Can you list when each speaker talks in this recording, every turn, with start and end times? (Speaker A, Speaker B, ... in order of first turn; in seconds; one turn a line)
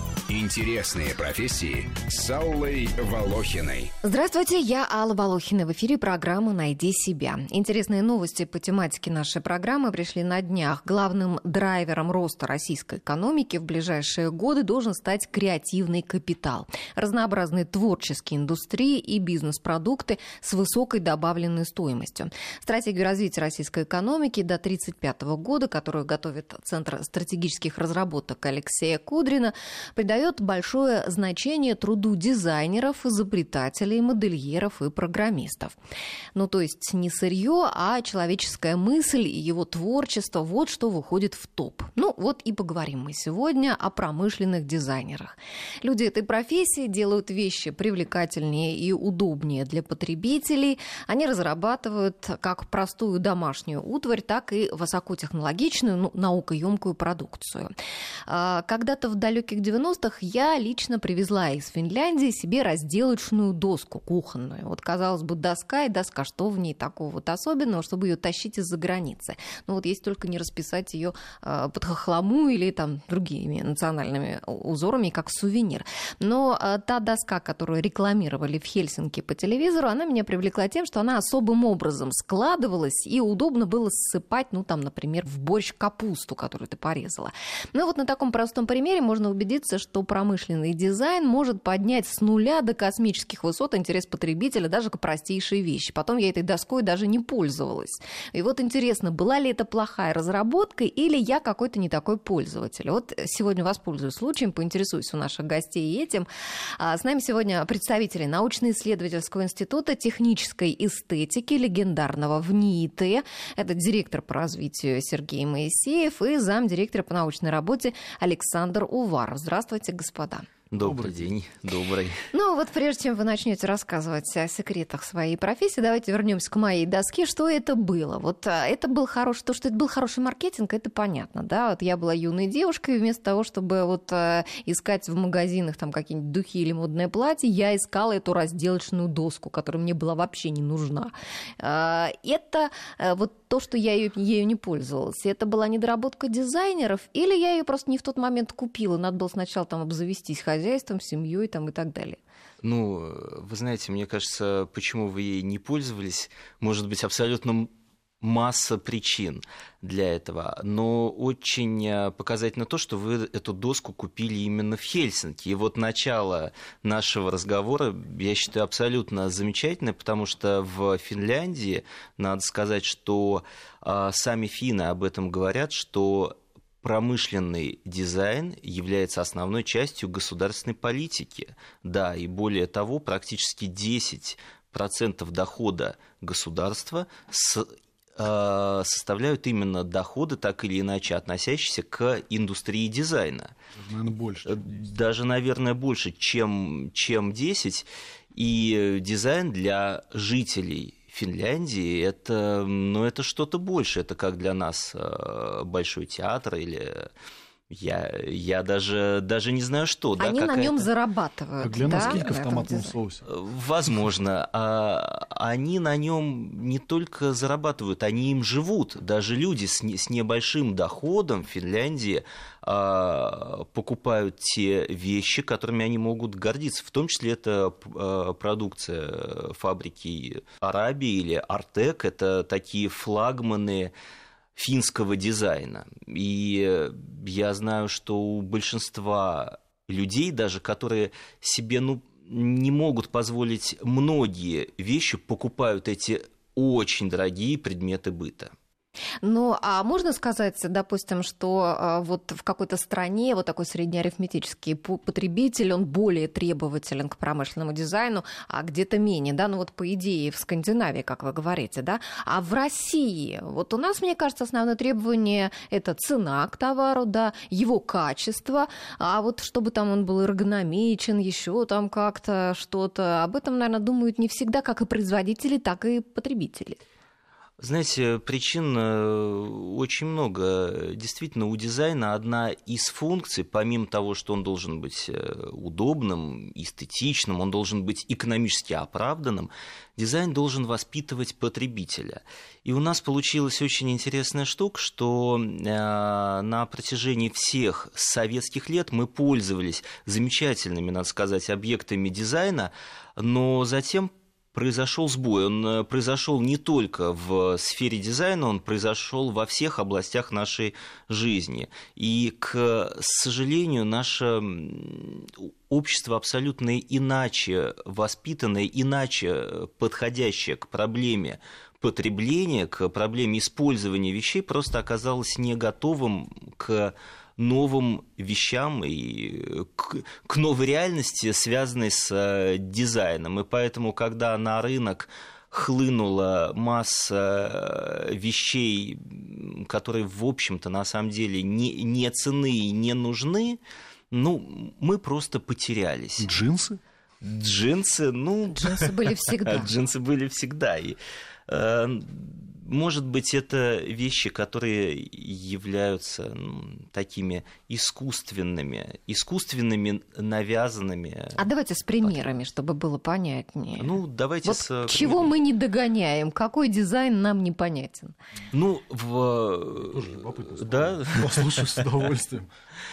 Speaker A: 0.3-3.9
Speaker B: 4.0-35.8
Speaker B: 36.3-57.7
Speaker B: 58.3-120.5
Speaker C: 120.7-122.2
Speaker D: 120.8-121.2
Speaker B: 122.3-152.2
Speaker C: 152.6-157.7
Speaker C: 158.2-193.5
Speaker D: 193.7-194.7
Speaker C: 194.4-207.1
Speaker C: 207.7-210.9
Speaker B: 210.2-212.9
Speaker D: 211.6-213.2
Speaker C: 213.2-233.9
Speaker C: 234.6-248.5
Speaker B: 249.2-276.8
Speaker C: 277.6-343.6
Speaker C: 344.1-346.3
Speaker D: 346.2-346.8
Speaker C: 347.2-361.4
Speaker B: 348.5-349.7
Speaker B: 361.4-368.1
Speaker C: 362.0-362.3
Speaker C: 363.8-365.3
Speaker C: 368.5-371.8
Speaker D: 369.8-372.5